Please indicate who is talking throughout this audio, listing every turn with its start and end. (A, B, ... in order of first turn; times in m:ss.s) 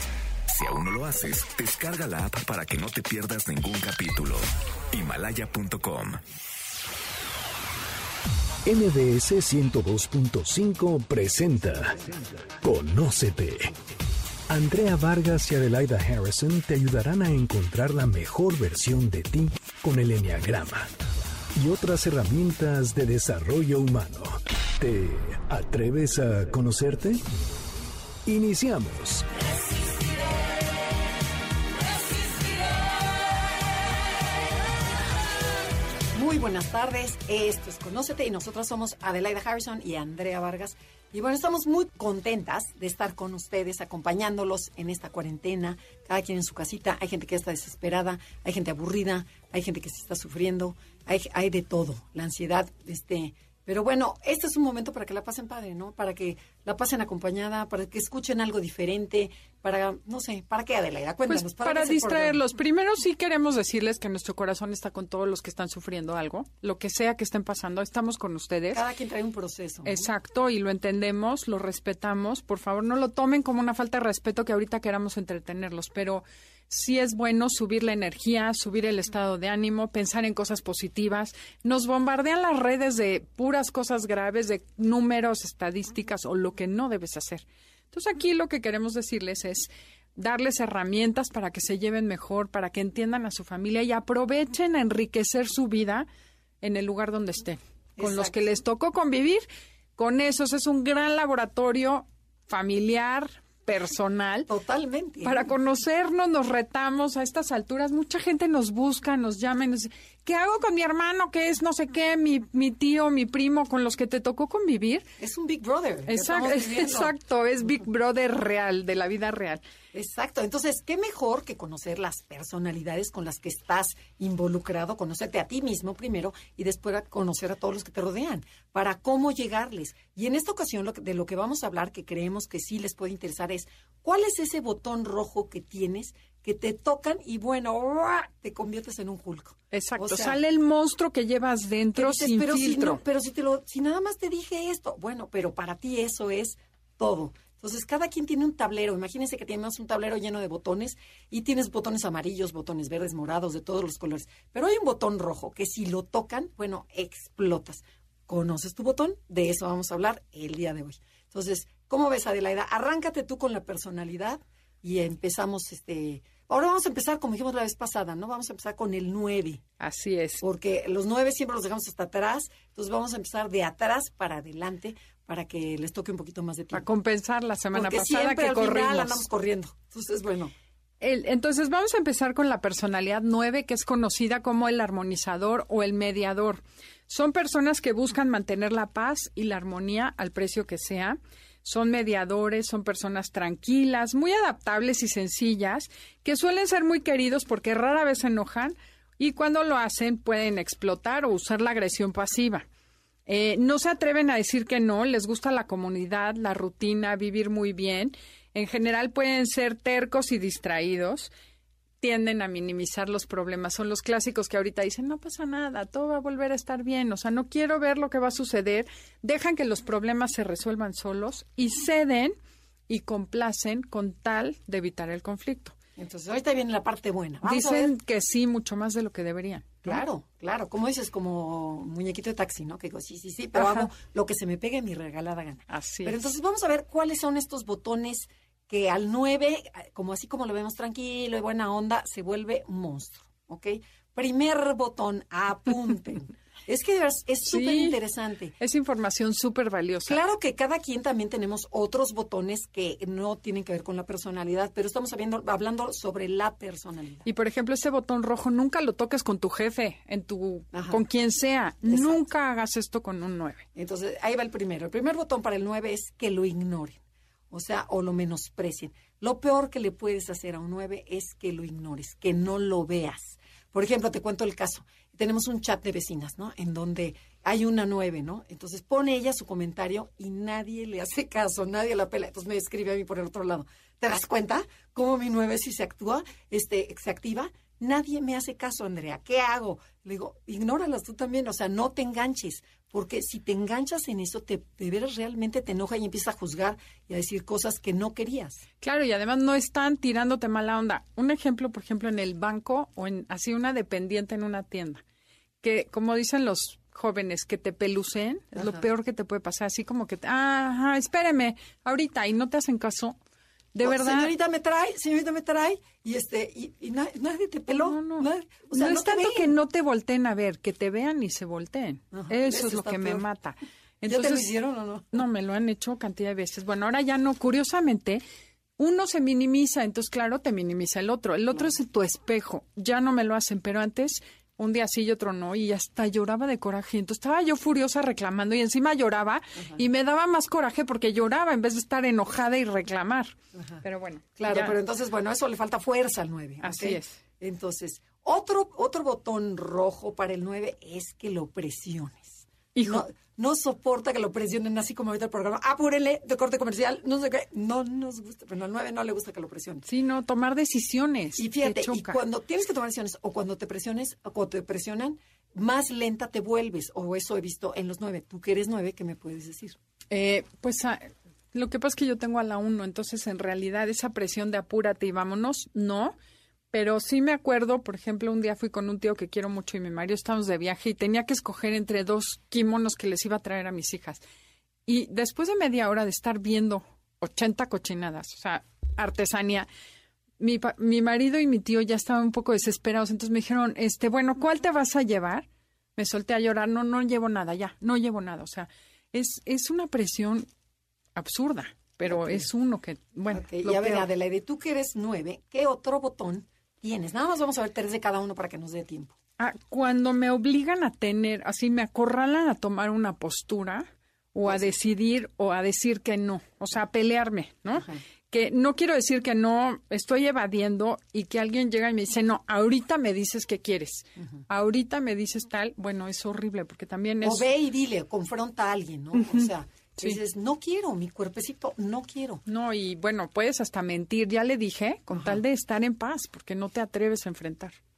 0:00.5-0:06.2 A
0:08.7-0:13.7 B
0:14.5-0:20.9 B
0:21.6-0:27.2 B
0:28.3-0:29.4 B
0:36.1-1:02.4 C
1:01.3-1:08.8 D
1:08.7-1:10.1 C
1:09.8-1:36.1 D
1:36.6-1:39.5 D
1:38.0-1:38.3 C
1:40.0-1:44.5 D
1:44.5-1:45.5 C
1:45.2-1:55.1 D
1:55.2-1:57.1 C
1:56.1-1:59.6 D
1:59.9-2:20.4 C
2:19.7-2:23.0 D
2:22.0-2:49.6 C
2:49.8-2:50.4 D
2:50.4-2:56.8 C
2:56.7-2:59.2 D
2:57.7-3:00.5 C
3:01.0-3:22.7 D
3:23.3-3:31.3 D
3:32.0-3:42.4 D
3:42.9-3:45.8 D
3:46.0-3:47.9 C
3:47.4-3:50.0 D
3:49.8-4:08.5 C
3:53.6-3:53.9 D
3:55.7-3:56.3 D
4:07.4-4:08.0 D
4:08.6-4:10.2 D
4:10.1-4:17.2 C
4:17.2-4:23.7 D
4:20.7-4:21.0 C
4:21.9-4:22.2 C
4:23.8-4:27.0 C
4:27.5-4:58.6 C
4:58.8-5:05.0 D
5:05.6-5:13.2 D
5:08.6-5:08.8 C
5:13.7-5:14.3 D
5:13.8-5:19.5 C
5:17.7-5:24.5 D
5:22.1-5:23.2 C
5:24.1-5:25.2 C
5:25.1-5:28.2 D
5:28.8-5:44.7 D
5:39.6-5:39.8 C
5:43.6-5:43.8 C
5:44.4-5:59.8 C
5:46.6-5:47.2 D
5:52.8-5:53.0 D
5:59.9-6:02.2 D
6:01.4-6:09.8 C
6:10.1-6:16.2 D
6:16.7-6:24.2 D
6:24.9-6:29.7 D
6:30.4-6:40.5 D
6:41.2-6:44.1 D
6:42.1-6:42.5 C
6:43.3-6:49.2 C
6:49.4-7:07.4 D
6:57.8-6:58.0 C
7:07.2-7:12.4 C
7:09.2-7:10.2 D
7:12.5-7:17.8 D
7:15.1-7:15.4 C